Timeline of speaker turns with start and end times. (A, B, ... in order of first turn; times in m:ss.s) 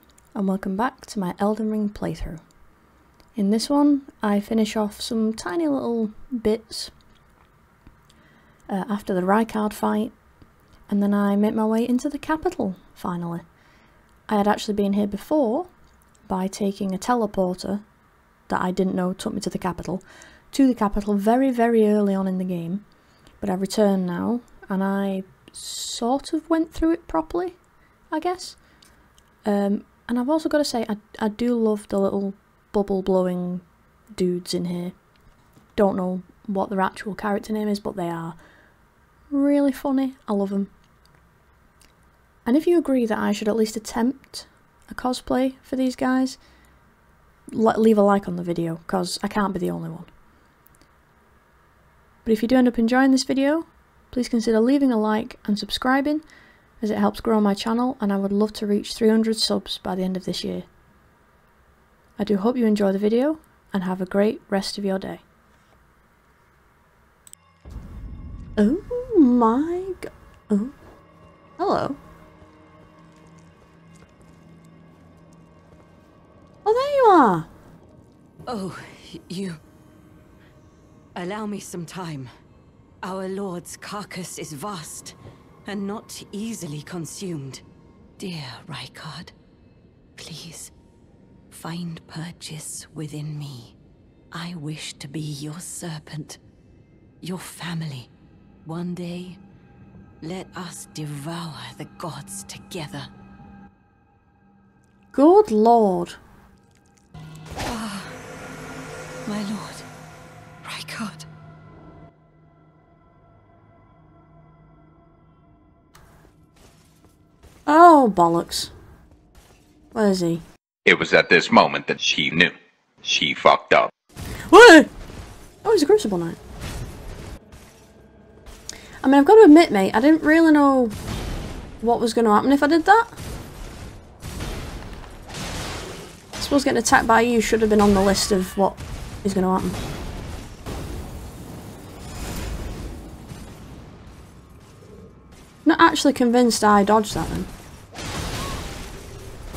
0:00.3-0:02.4 A
0:03.4-0:06.9 A
0:08.7-0:10.1 A
0:10.9-0:13.4 A
0:14.3-0:15.7 A
0:16.2-0:17.8 A
0:18.5-0:22.8 A
0:23.4-0:27.6 A
0:28.1-0:28.6 A
0:29.4-0:34.9 A
0:35.8-0:38.4 A
0:39.3-0:40.7 A
0:42.4-0:46.4 A
0:47.5-0:50.1 A
0:52.2-0:56.2 A
0:56.8-1:00.7 A
1:02.2-1:05.2 A
1:08.6-1:10.7 A
1:11.6-1:12.0 A
1:16.6-1:17.5 A
1:18.5-1:19.6 B
1:21.2-1:22.3 B
1:23.0-1:25.1 B
1:25.6-1:27.6 B
1:28.2-1:29.3 B
1:30.2-1:30.7 B
1:31.5-1:33.8 B
1:34.3-1:36.4 B
1:37.2-1:38.1 B
1:38.6-1:39.4 B
1:40.2-1:43.1 B
1:45.1-1:46.2 A
1:47.6-1:48.1 B
1:49.2-1:49.8 B
1:50.6-1:51.3 B
1:57.7-1:58.7 A
1:59.9-2:00.4 A
2:00.8-2:03.9 C
2:04.5-2:04.9 A
2:05.6-2:06.4 A
2:09.0-2:10.9 A
2:11.8-2:13.1 A
2:16.4-2:19.8 A
2:25.6-2:27.5 A